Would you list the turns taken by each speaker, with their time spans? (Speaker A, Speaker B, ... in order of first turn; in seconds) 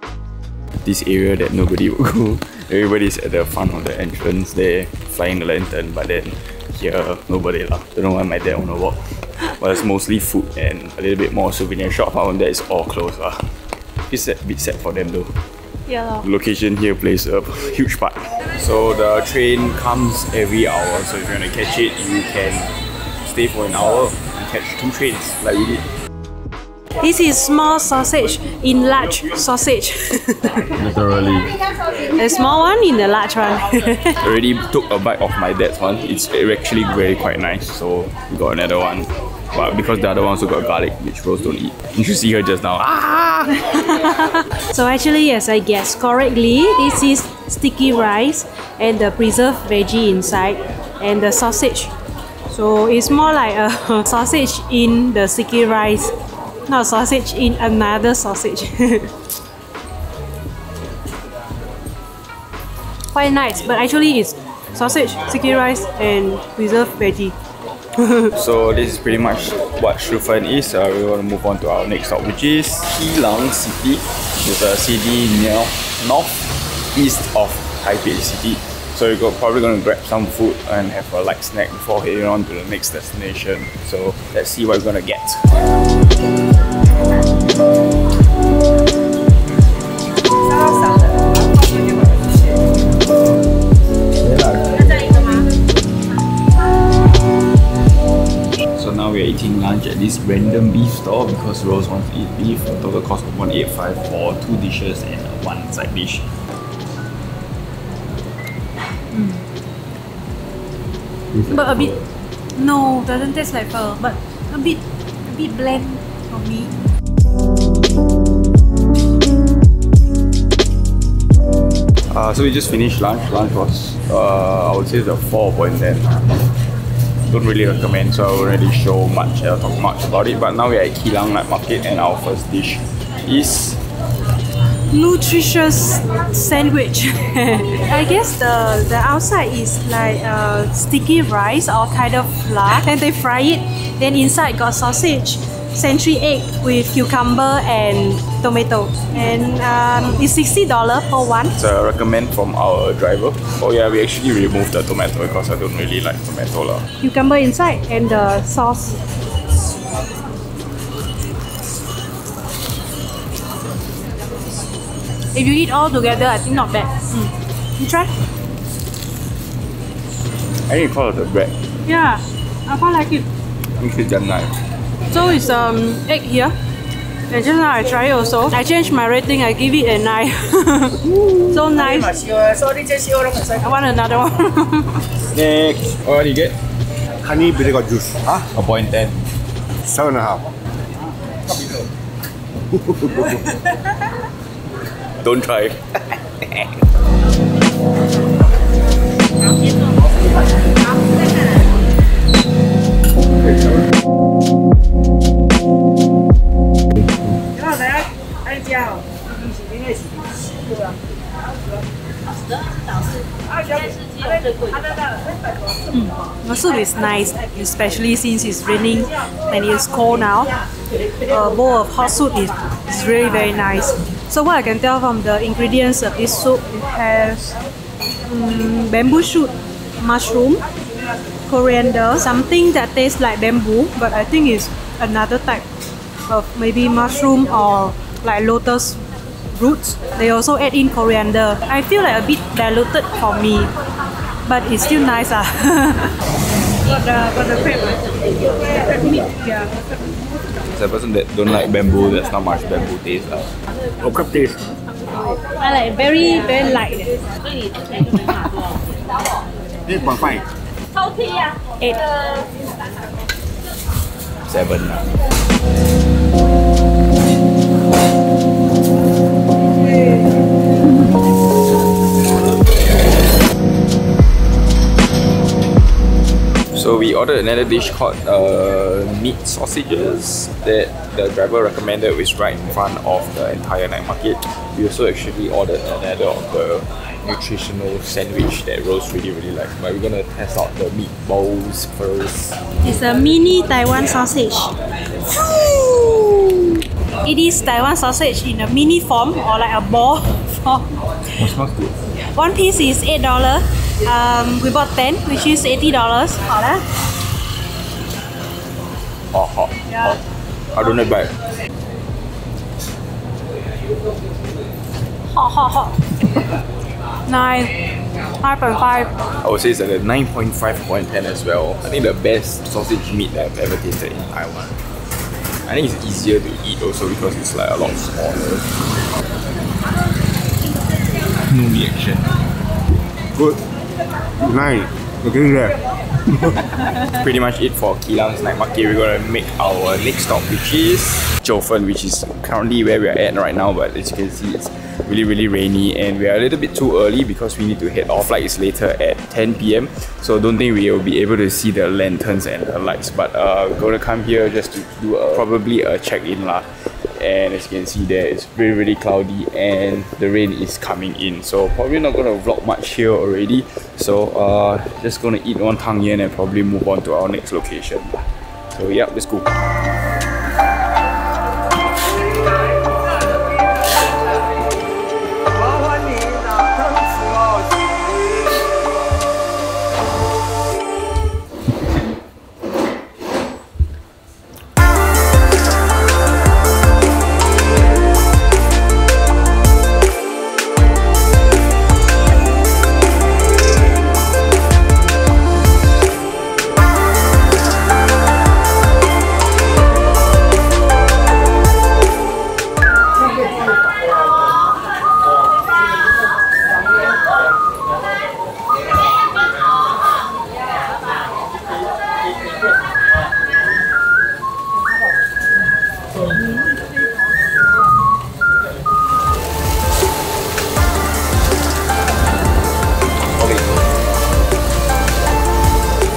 Speaker A: 0.8-13.5, 14.1-15.3, 16.2-25.9, 30.8-31.5, 34.2-44.0, 68.3-76.4, 76.9-85.6, 94.2-95.3, 98.7-106.3, 111.3-112.0, 122.1-126.1, 127.3-133.8, 151.5-156.8, 170.7-171.6, 173.8-174.6, 185.3-186.6, 188.3-189.3, 195.2-195.8, 250.7-253.5, 264.4-265.1, 276.7-292.6, 301.3-302.0, 309.3-310.2, 310.7-311.4, 319.4-324.8, 325.6-328.7, 330.6-332.3, 336.6-369.5, 423.3-423.8
Speaker B: 15.9-16.2, 27.0-30.7, 32.0-34.1, 44.6-51.9, 52.5-56.1, 56.7-59.1, 63.1-67.3, 68.0-68.3, 109.1-109.4, 111.5-112.0, 112.5-116.7, 134.9-151.5, 157.0-159.0, 165.3-168.1, 171.8-173.2, 175.1-176.5, 177.3-185.0, 215.9-220.6, 221.3-227.6, 228.3-230.6, 231.4-235.6, 236.3-243.7, 244.4-246.2, 246.8-249.7, 255.6-257.2, 261.8-262.1, 292.8-301.4, 302.1-306.8, 309.9-310.1, 315.3-316.2, 317.2-317.8, 318.3-319.1
Speaker C: 187.2-188.3, 189.8-190.5, 192.8-193.3, 254.0-254.7, 259.9-260.4, 333.3-333.6, 334.4-335.8